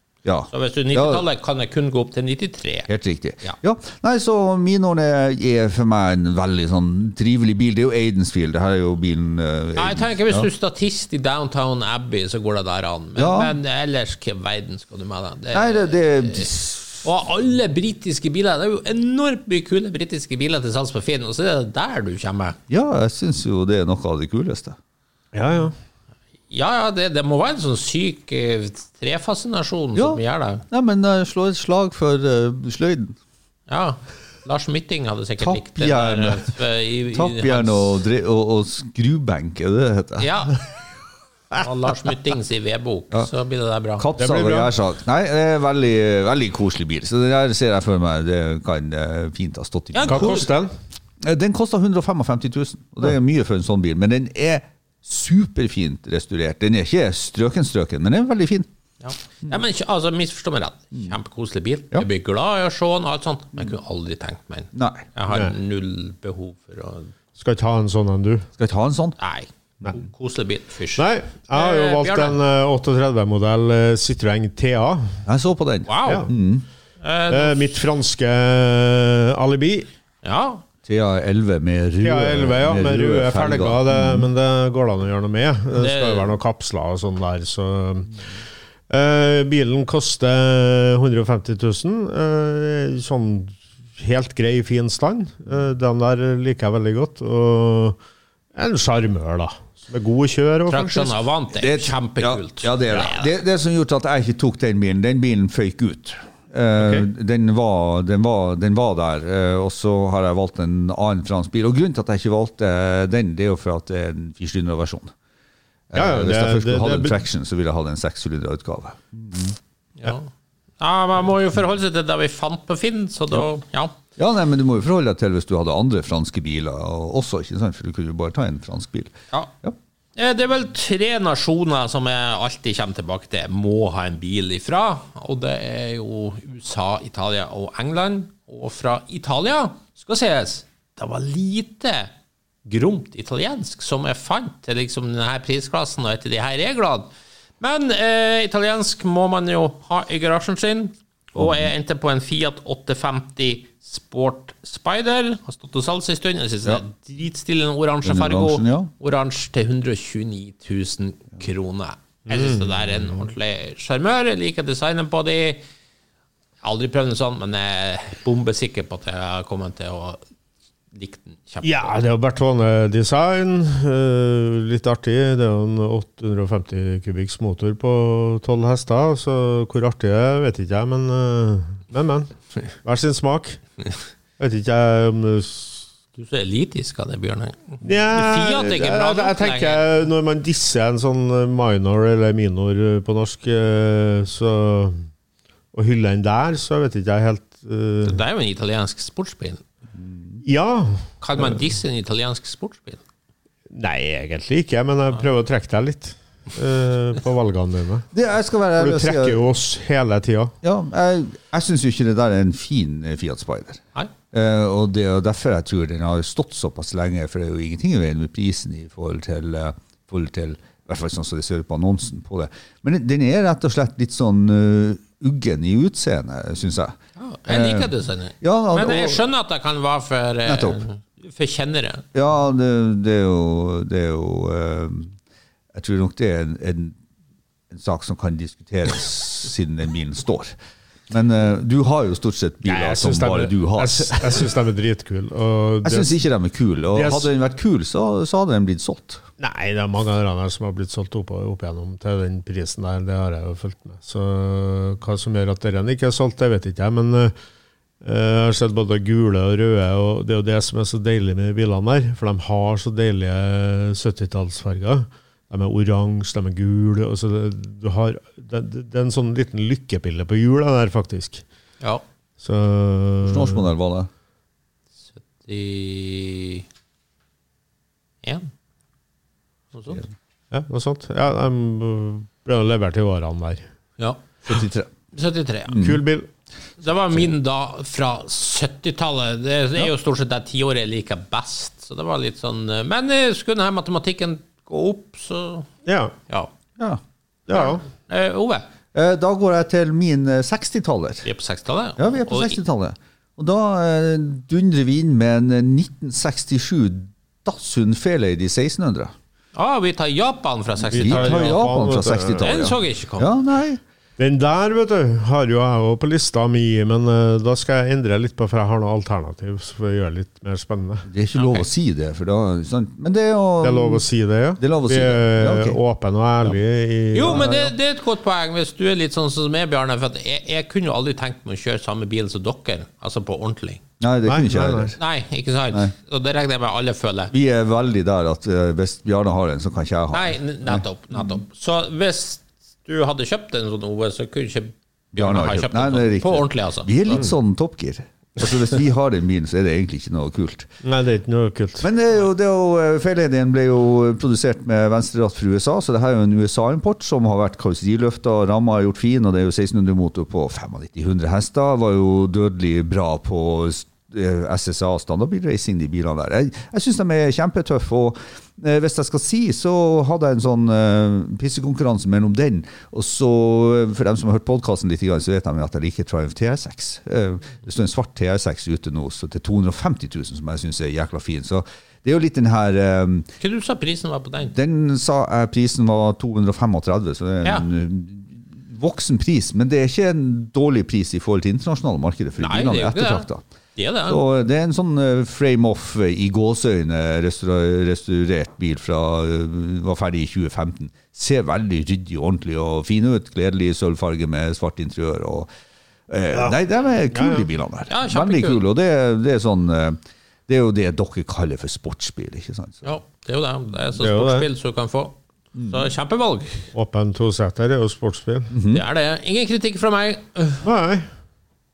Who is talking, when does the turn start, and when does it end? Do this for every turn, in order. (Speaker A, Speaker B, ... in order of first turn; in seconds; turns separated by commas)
Speaker A: 0.2-1.2, Speaker B: 0.5-2.9, Speaker A: 2.9-10.5, Speaker B: 9.8-16.5, Speaker A: 13.2-13.5, Speaker A: 15.5-17.0, Speaker B: 17.0-22.6, Speaker A: 22.7-24.8, Speaker C: 25.3-25.7, Speaker B: 26.5-30.6, Speaker A: 29.9-33.1, Speaker B: 33.7-38.0, Speaker A: 35.4-36.5, Speaker A: 37.1-40.3, Speaker B: 40.2-40.6, Speaker B: 41.5-44.1, Speaker A: 44.0-50.4, Speaker C: 44.2-44.7, Speaker B: 49.9-50.5, Speaker C: 50.0-50.7, Speaker A: 51.2-58.7, Speaker B: 59.0-67.1, Speaker A: 64.7-65.1, Speaker C: 65.3-65.5, Speaker C: 67.3-68.5, Speaker A: 68.6-69.2, Speaker B: 69.2-72.4, Speaker C: 71.0-75.2, Speaker A: 75.2-76.6, Speaker B: 75.9-76.3, Speaker C: 76.0-76.3, Speaker B: 77.0-77.8, Speaker C: 77.3-79.9, Speaker B: 80.2-80.6, Speaker A: 80.8-84.3, Speaker C: 82.0-88.1, Speaker B: 85.7-86.4, Speaker C: 88.9-98.0, Speaker C: 98.5-101.1, Speaker B: 100.7-103.3, Speaker A: 101.5-115.1, Speaker A: 115.9-119.6, Speaker C: 115.9-117.2, Speaker B: 120.0-123.9, Speaker A: 124.2-129.8, Speaker B: 130.2-142.1, Speaker B: 142.7-165.6, Speaker A: 151.3-151.7, Speaker A: 158.0-158.9, Speaker C: 162.3-162.7, Speaker B: 166.6-170.2, Speaker B: 170.9-171.9, Speaker C: 171.6-182.3, Speaker C: 182.8-183.6, Speaker C: 184.4-185.9, Speaker B: 186.1-189.8, Speaker C: 187.8-195.0, Speaker C: 195.7-198.2, Speaker B: 198.0-199.6, Speaker A: 199.9-200.4, Speaker C: 200.4-201.1, Speaker B: 201.2-203.0, Speaker C: 203.7-208.1, Speaker A: 208.1-209.4, Speaker C: 208.8-210.5, Speaker A: 210.6-229.2, Speaker B: 227.2-232.0, Speaker A: 230.4-230.8, Speaker A: 232.1-235.1, Speaker A: 235.7-236.9, Speaker A: 237.7-240.5, Speaker A: 241.1-244.5, Speaker C: 242.6-246.1, Speaker A: 245.8-249.2, Speaker C: 246.9-247.3, Speaker C: 249.4-257.3, Speaker C: 258.0-271.4, Speaker C: 272.4-273.6, Speaker A: 273.2-274.1, Speaker B: 275.2-276.6, Speaker B: 278.2-278.5, Speaker B: 279.7-280.0, Speaker C: 280.5-283.6, Speaker B: 284.0-284.6, Speaker A: 284.5-284.9, Speaker B: 285.1-285.8, Speaker A: 285.7-286.0, Speaker C: 285.8-286.3, Speaker B: 286.8-295.7, Speaker C: 295.9-296.1, Speaker C: 297.5-297.8, Speaker B: 297.5-298.6, Speaker A: 298.9-301.3, Speaker B: 301.2-302.6, Speaker A: 302.0-309.1, Speaker B: 309.5-311.6, Speaker C: 310.9-312.6, Speaker A: 310.9-313.8, Speaker B: 312.4-313.3, Speaker C: 314.2-321.1, Speaker A: 321.1-324.0, Speaker B: 321.3-321.7, Speaker C: 323.6-327.5, Speaker A: 324.6-325.8, Speaker B: 327.1-333.8, Speaker A: 327.2-327.7, Speaker A: 334.0-334.9, Speaker C: 334.3-334.9, Speaker B: 335.0-337.3, Speaker A: 337.3-341.4, Speaker B: 340.1-347.2, Speaker A: 345.1-350.7, Speaker C: 350.8-351.9, Speaker A: 351.8-383.3, Speaker B: 383.4-384.5, Speaker A: 384.5-393.4, Speaker B: 392.4-394.2, Speaker A: 394.1-405.5, Speaker A: 406.1-412.8, Speaker C: 407.1-407.5, Speaker B: 407.9-408.6, Speaker B: 412.8-416.7, Speaker C: 414.0-414.5, Speaker A: 415.6-415.9, Speaker C: 416.7-418.5, Speaker A: 418.5-418.8, Speaker B: 418.7-420.6, Speaker C: 420.6-421.1